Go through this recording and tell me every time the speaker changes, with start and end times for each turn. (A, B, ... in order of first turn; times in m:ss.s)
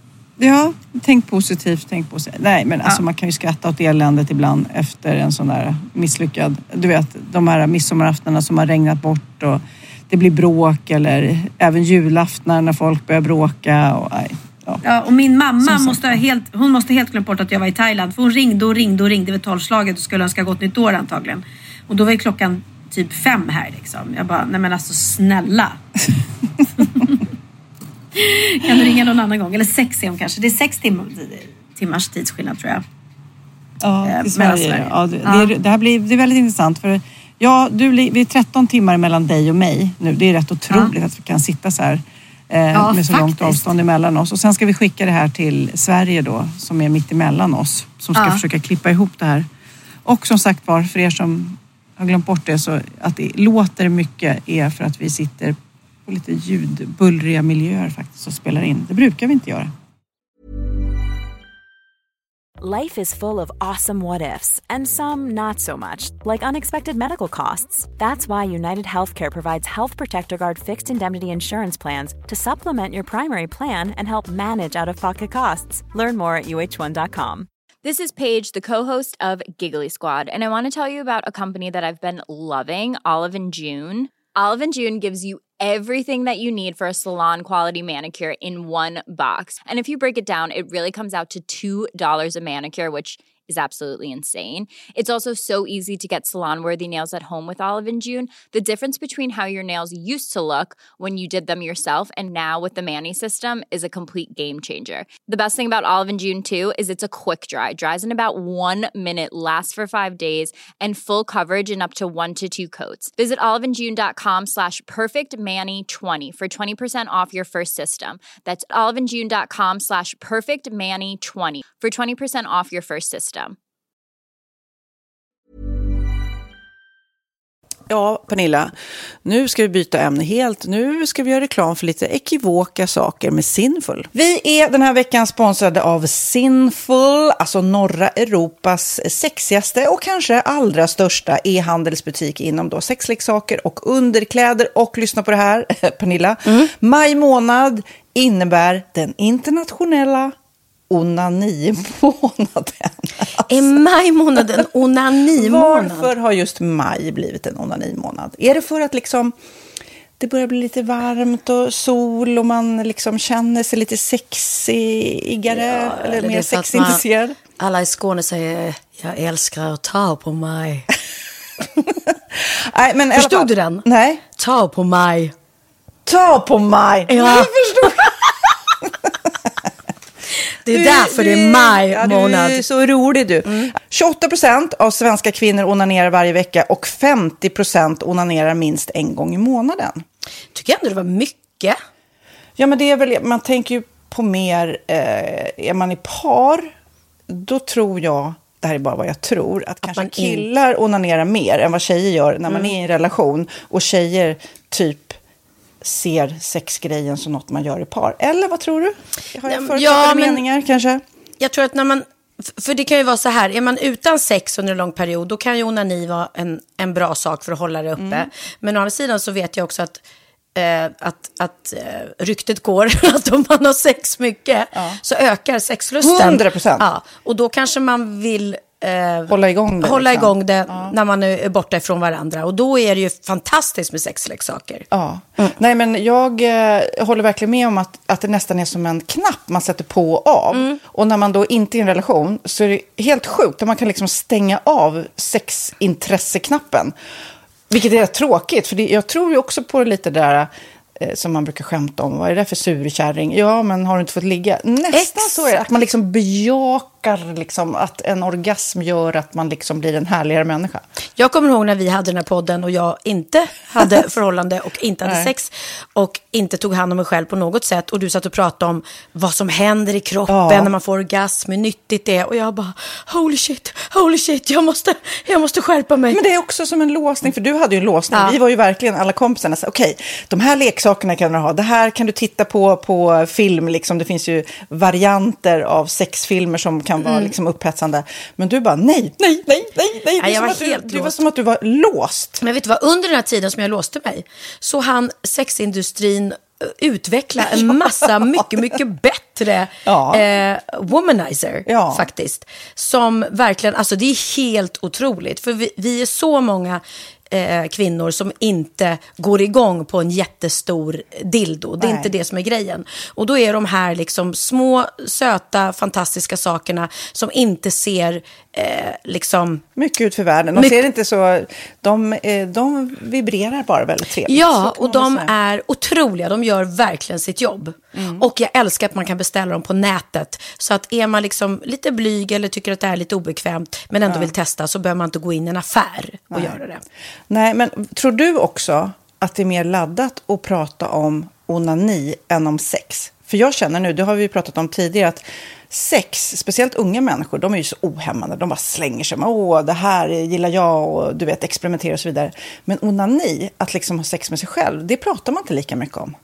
0:00.4-0:14.8 A
0:14.8-0:25.8 B
0:15.6-0:16.2 A
0:26.8-0:27.2 B
0:28.2-0:32.8 B
0:33.8-0:49.5 A
0:34.0-0:35.5 B
0:42.7-0:43.7 B
0:48.2-0:48.4 B
0:50.0-0:59.7 A
1:02.6-1:17.5 C
1:17.8-2:03.6 D
2:07.9-2:08.7 A
2:09.2-2:30.3 A
2:26.5-2:26.7 E
2:30.9-2:33.7 A
2:33.5-2:36.1 E
2:35.3-2:39.3 A
2:40.2-2:47.4 A
2:45.5-2:47.0 E
2:47.6-2:50.9 E
2:52.7-2:54.2 A
2:53.1-2:55.3 E
2:56.1-2:58.1 A
2:57.1-2:58.1 E
3:00.6-3:02.6 E
3:00.7-3:10.0 A
3:03.4-3:03.7 E
3:10.5-3:11.8 E
3:12.6-3:16.7 A
3:17.3-3:25.2 A
3:19.8-3:20.5 E
3:25.8-3:31.0 A
3:29.5-3:30.4 E
3:31.4-3:40.0 E
3:38.0-3:38.2 A
3:40.6-3:54.9 E
3:46.0-3:46.8 A
3:49.3-3:50.9 A
3:54.9-4:07.0 A
4:00.5-4:00.8 E
4:07.7-4:20.8 A
4:14.9-4:15.6 E
4:21.2-4:36.2 E
4:30.3-4:30.7 A
4:36.1-4:52.4 A
4:38.1-4:38.4 E
4:50.2-4:51.2 E
4:52.4-5:19.7 E
4:59.9-5:00.2 A
5:01.7-5:02.0 A
5:11.8-5:12.1 A
5:19.8-5:25.3 A
5:20.6-5:20.9 E
5:24.3-5:36.8 E
5:28.0-5:28.2 A
5:34.1-5:34.3 A
5:36.3-5:36.6 A
5:37.3-5:56.2 A